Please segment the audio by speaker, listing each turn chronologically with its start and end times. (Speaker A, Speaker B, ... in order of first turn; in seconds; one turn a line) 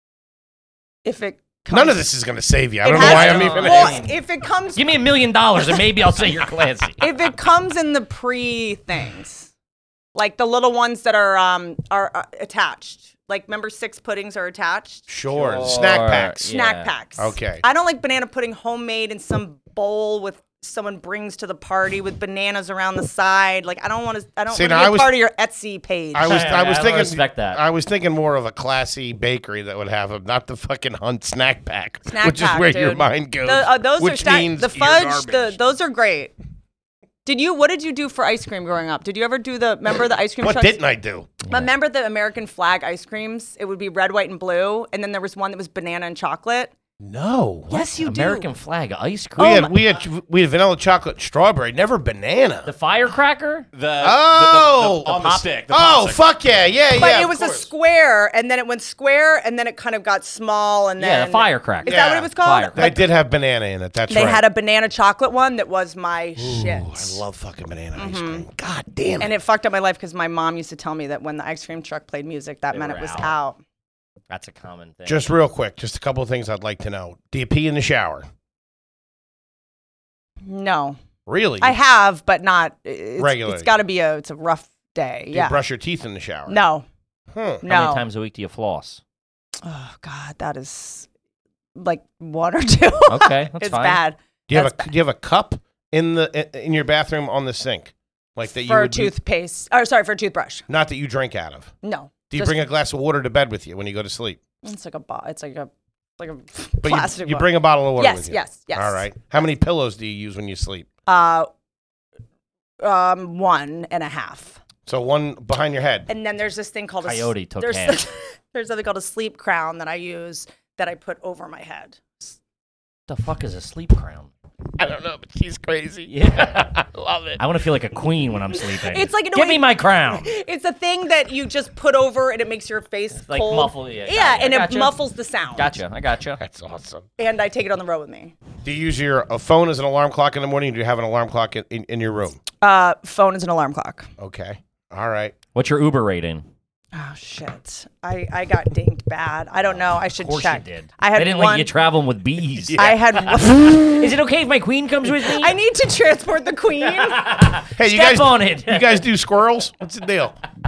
Speaker A: 1.0-2.0
Speaker B: 1.7-4.0
Speaker A: 2.8-4.8
Speaker C: 2.9-4.2
Speaker C: 4.7-7.1
Speaker A: 7.0-9.5
Speaker A: 10.1-15.1
Speaker B: 15.1-16.4
Speaker C: 15.3-16.9
Speaker A: 16.4-26.4
Speaker B: 17.2-17.6
Speaker B: 24.5-25.1
Speaker B: 26.1-35.6
Speaker C: 26.2-27.6
Speaker A: 32.0-36.3
Speaker A: 37.2-40.8
Speaker B: 40.4-41.4
Speaker A: 41.5-46.7
Speaker B: 47.0-47.8
Speaker A: 47.7-48.5
Speaker C: 48.0-49.7
Speaker B: 49.4-52.7
Speaker A: 49.4-49.7
Speaker C: 52.6-53.7
Speaker D: 53.7-56.3
Speaker B: 54.0-57.7
Speaker A: 56.9-63.0
Speaker C: 61.0-63.0
Speaker B: 61.8-64.4
Speaker A: 64.1-67.2
Speaker B: 66.4-69.3
Speaker A: 68.0-68.4
Speaker A: 69.2-73.6
Speaker C: 72.7-73.3
Speaker C: 74.3-75.3
Speaker B: 75.0-78.3
Speaker A: 80.4-81.0
Speaker B: 81.2-81.8
Speaker A: 81.6-85.6
Speaker B: 83.2-83.7
Speaker B: 85.3-86.6
Speaker A: 86.5-86.8
Speaker B: 87.3-87.6
Speaker A: 87.6-88.0
Speaker C: 87.7-89.0
Speaker A: 89.6-91.1
Speaker A: 91.7-94.9
Speaker C: 93.1-94.0
Speaker B: 94.5-99.1
Speaker A: 98.5-100.7
Speaker B: 100.7-101.7
Speaker A: 101.8-102.6
Speaker B: 102.3-104.4
Speaker A: 104.6-109.1
Speaker B: 106.8-110.9
Speaker A: 111.1-111.5
Speaker A: 112.8-114.6
Speaker B: 114.8-116.1
Speaker A: 116.1-122.3
Speaker C: 117.0-118.0
Speaker C: 123.1-124.3
Speaker B: 124.8-127.4
Speaker C: 126.1-126.8
Speaker C: 127.4-130.3
Speaker A: 128.8-135.8
Speaker C: 133.3-135.0
Speaker C: 135.5-136.4
Speaker B: 136.4-137.1
Speaker A: 137.2-138.3
Speaker B: 138.6-142.4
Speaker A: 142.6-144.1
Speaker B: 144.2-145.3
Speaker C: 145.5-146.4
Speaker A: 146.9-151.7
Speaker C: 150.0-155.5
Speaker A: 152.8-154.1
Speaker A: 155.2-157.4
Speaker C: 157.0-159.0
Speaker B: 157.8-160.3